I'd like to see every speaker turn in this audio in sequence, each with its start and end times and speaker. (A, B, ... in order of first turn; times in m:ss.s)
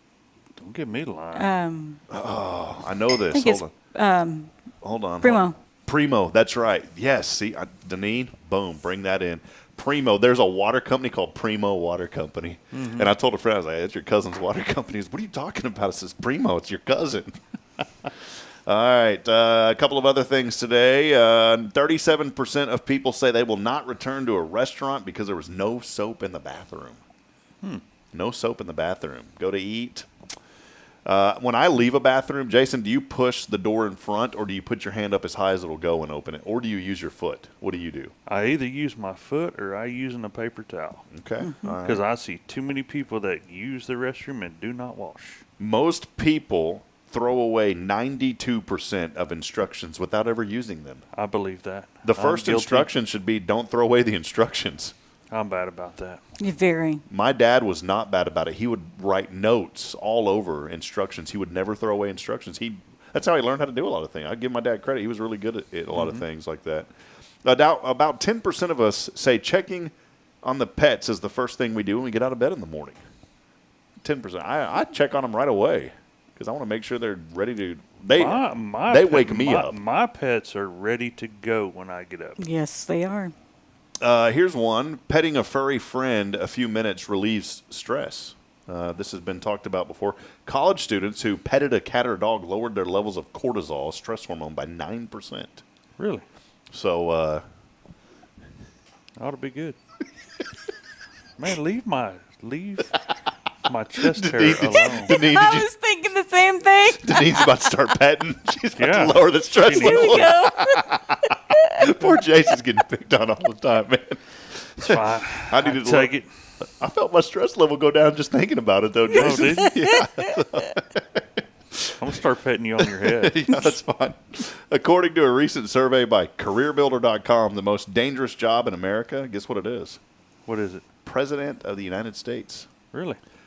0:00.6-0:01.5 A
0:01.4-0:02.0 B
0:02.1-0:03.7 C
0:03.3-0:04.5 B
0:04.8-0:17.4 C
0:05.2-0:05.6 B
0:12.7-0:13.1 A
0:18.7-0:27.0 C
0:28.1-0:30.1 C
0:31.0-0:38.1 C
0:38.3-0:41.0 A
0:41.1-0:42.0 C
0:41.8-0:45.4 A
0:45.6-0:51.0 C
0:51.1-0:52.9 A
0:52.0-0:54.9 C
0:55.3-0:56.2 A
0:56.4-0:57.0 B
0:57.1-1:06.9 C
1:05.9-1:06.2 A
1:07.4-1:13.0 C
1:14.0-1:19.8 C
1:18.1-1:22.4 A
1:22.4-1:23.3 B
1:24.0-1:35.6 C
1:36.0-1:36.2 A
1:36.7-1:37.4 C
1:39.2-1:39.8 A
1:41.4-1:42.9 A
1:43.7-1:45.2 A
1:44.0-1:45.7 C
1:44.9-1:47.7 B
1:46.9-1:56.1 C
1:48.8-1:50.4 A
1:49.7-1:52.0 B
1:54.8-1:56.3 A
1:56.6-2:01.2 C
1:59.1-2:00.0 A
1:59.1-2:00.4 B
2:02.0-2:03.7 A
2:03.0-2:10.0 C
2:10.5-2:10.8 A
2:11.0-2:12.7 C
2:12.9-2:13.2 A